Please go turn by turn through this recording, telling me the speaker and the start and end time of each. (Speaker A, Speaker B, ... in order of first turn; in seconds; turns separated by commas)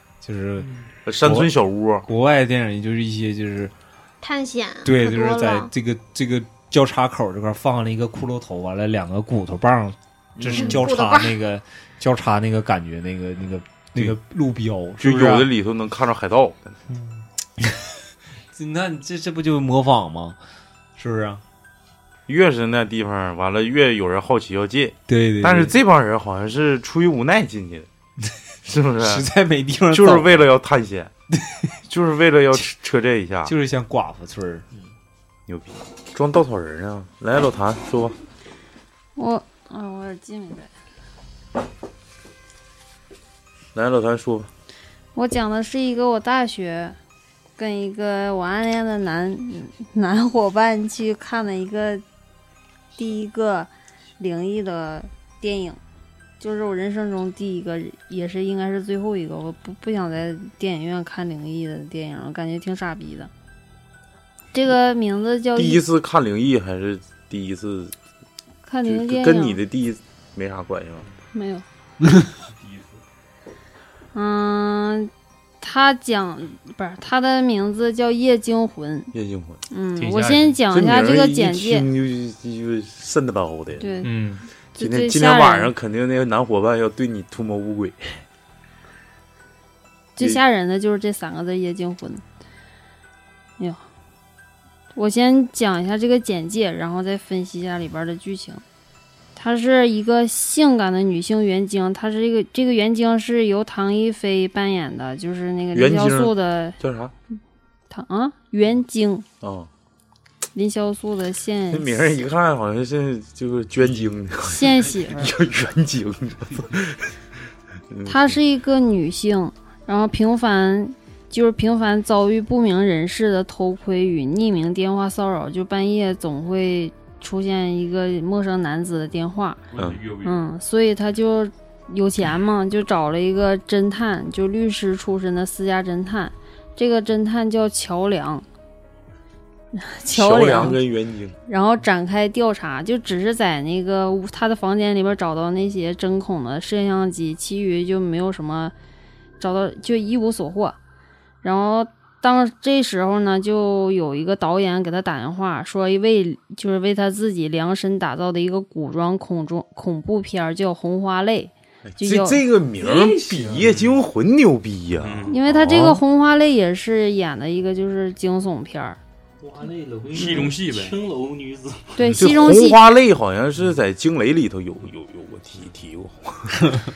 Speaker A: 0.2-0.7, Speaker B: 1.1-2.0, Speaker A: 1.2-1.5, Speaker A: 2.0-3.7, Speaker C: 4.2-5.7, Speaker A: 4.8-15.5, Speaker C: 10.5-11.3, Speaker B: 15.0-16.8, Speaker D: 16.9-17.2, Speaker A: 18.5-20.4, Speaker A: 21.0-21.4, Speaker B: 22.3-27.9, Speaker A: 25.1-25.8, Speaker B: 28.7-29.3, Speaker A: 29.0-30.4, Speaker B: 29.9-31.1, Speaker A: 31.3-31.8, Speaker B: 31.9-33.5, Speaker A: 33.5-34.9, Speaker B: 35.5-38.2, Speaker E: 39.2-40.7, Speaker B: 43.8-44.5, Speaker E: 45.1-47.0, Speaker E: 47.6-52.0, Speaker E: 53.0-55.8, Speaker E: 56.4-63.3, Speaker E: 64.5-65.8, Speaker B: 65.6-67.9, Speaker E: 68.7-69.6, Speaker B: 68.8-71.1, Speaker E: 71.3-71.7, Speaker F: 72.5-73.0, Speaker E: 74.1-79.1, Speaker B: 79.1-79.6, Speaker E: 79.7-81.9, Speaker D: 80.0-80.6, Speaker B: 80.7-84.0, Speaker E: 83.8-84.1, Speaker D: 84.0-84.5, Speaker E: 84.8-85.7, Speaker B: 84.8-88.2, Speaker E: 90.2-92.2, Speaker E: 93.6-93.8, Speaker E: 94.9-98.6, Speaker E: 99.4-106.8, Speaker B: 105.7-107.1, Speaker E: 107.9-109.3, Speaker B: 109.4-109.7, Speaker E: 110.5-112.1, Speaker B: 111.7-117.1, Speaker E: 114.4-115.3, Speaker B: 117.9-118.4, Speaker E: 118.1-129.6, Speaker F: 129.7-130.4, Speaker B: 129.8-130.0, Speaker E: 130.2-138.4, Speaker E: 139.8-140.8, Speaker B: 140.1-141.4, Speaker E: 141.5-148.7, Speaker E: 149.4-150.8, Speaker E: 151.4-162.4, Speaker B: 161.9-166.0, Speaker D: 162.8-163.7, Speaker F: 165.0-165.4, Speaker E: 165.3-169.0, Speaker D: 169.4-172.0, Speaker F: 170.1-171.0, Speaker E: 172.0-172.8, Speaker B: 172.2-176.8